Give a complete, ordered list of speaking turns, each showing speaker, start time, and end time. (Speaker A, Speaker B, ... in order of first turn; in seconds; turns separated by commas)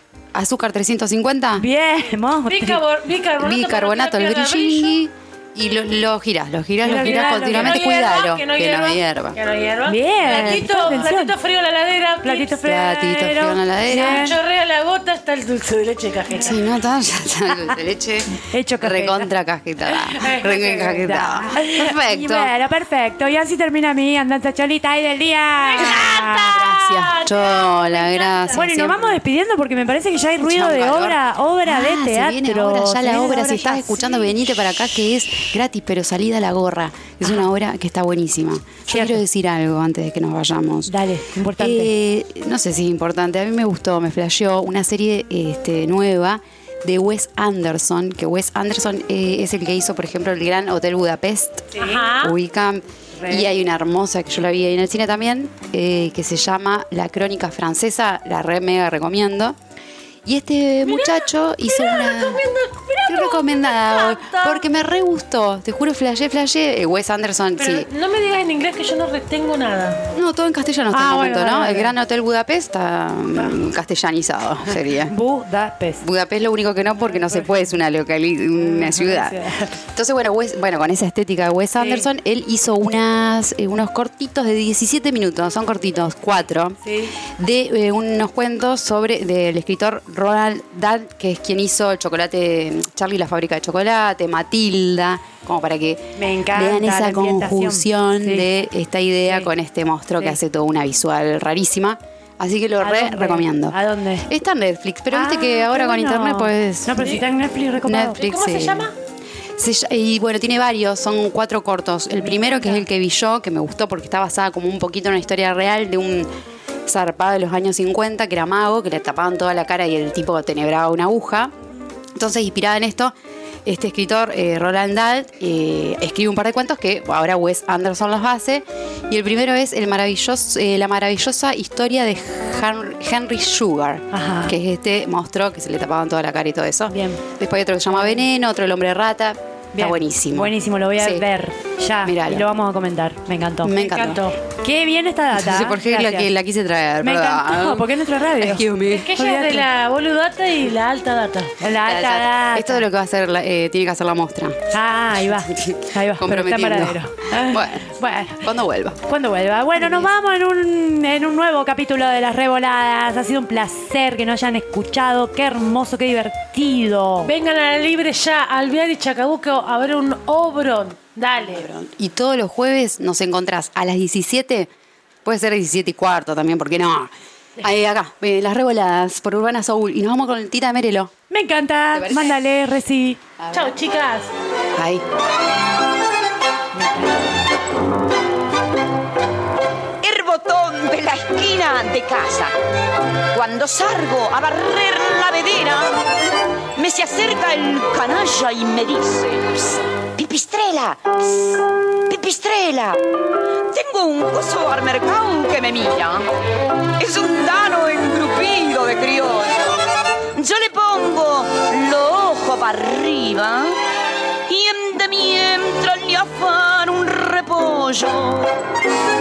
Speaker A: 0.3-1.7, Speaker B: 1.6-2.8, Speaker C: 2.5-5.0, Speaker A: 3.4-9.4, Speaker B: 6.8-7.8, Speaker C: 6.9-12.6, Speaker B: 9.9-11.4, Speaker A: 10.4-10.6, Speaker B: 12.2-14.4, Speaker A: 12.6-14.3, Speaker C: 13.9-16.6, Speaker A: 16.4-22.5, Speaker B: 18.4-19.3, Speaker C: 20.1-21.1, Speaker B: 20.7-26.6, Speaker C: 25.6-29.2, Speaker A: 25.8-29.1, Speaker B: 28.6-34.0, Speaker A: 30.4-40.9, Speaker C: 33.4-34.1, Speaker B: 38.9-39.2, Speaker B: 40.9-41.9, Speaker A: 41.6-59.6, Speaker B: 51.8-52.1, Speaker C: 51.8-52.4, Speaker B: 53.2-53.5, Speaker A: 60.2-62.4, Speaker C: 60.9-64.6, Speaker A: 63.1-67.9, Speaker C: 67.6-70.1, Speaker A: 70.1-75.1, Speaker B: 70.9-72.0, Speaker B: 74.9-76.0, Speaker A: 76.0-107.2, Speaker B: 77.1-77.4, Speaker B: 78.6-79.8, Speaker B: 81.8-82.1, Speaker B: 86.8-87.2, Speaker B: 96.2-98.5, Speaker B: 102.8-104.3, Speaker B: 105.1-108.2, Speaker A: 107.8-108.9, Speaker C: 108.1-108.9, Speaker A: 109.6-116.3, Speaker B: 112.3-112.8, Speaker A: 116.9-121.5, Speaker A: 122.2-123.1, Speaker A: 123.7-141.3, Speaker B: 134.1-134.6, Speaker B: 136.9-137.2, Speaker B: 139.8-143.8, Speaker A: 142.0-142.5, Speaker A: 143.6-144.2, Speaker C: 143.8-144.4, Speaker B: 144.4-146.3, Speaker A: 145.3-149.2, Speaker B: 147.0-149.7, Speaker C: 148.9-151.5, Speaker B: 151.6-152.8, Speaker A: 151.8-154.7, Speaker B: 154.7-158.5, Speaker A: 155.3-159.0, Speaker B: 159.1-167.3, Speaker A: 159.8-160.1, Speaker C: 167.2-171.7, Speaker A: 171.4-174.7, Speaker A: 175.2-181.1, Speaker B: 181.3-183.2, Speaker A: 181.9-182.4, Speaker A: 183.4-183.8, Speaker C: 183.5-184.3, Speaker A: 184.8-185.0, Speaker D: 190.0-192.6, Speaker D: 193.3-196.0, Speaker D: 196.8-203.0, Speaker D: 203.7-206.3, Speaker D: 207.0-209.8, Speaker D: 210.3-213.8, Speaker D: 214.5-218.5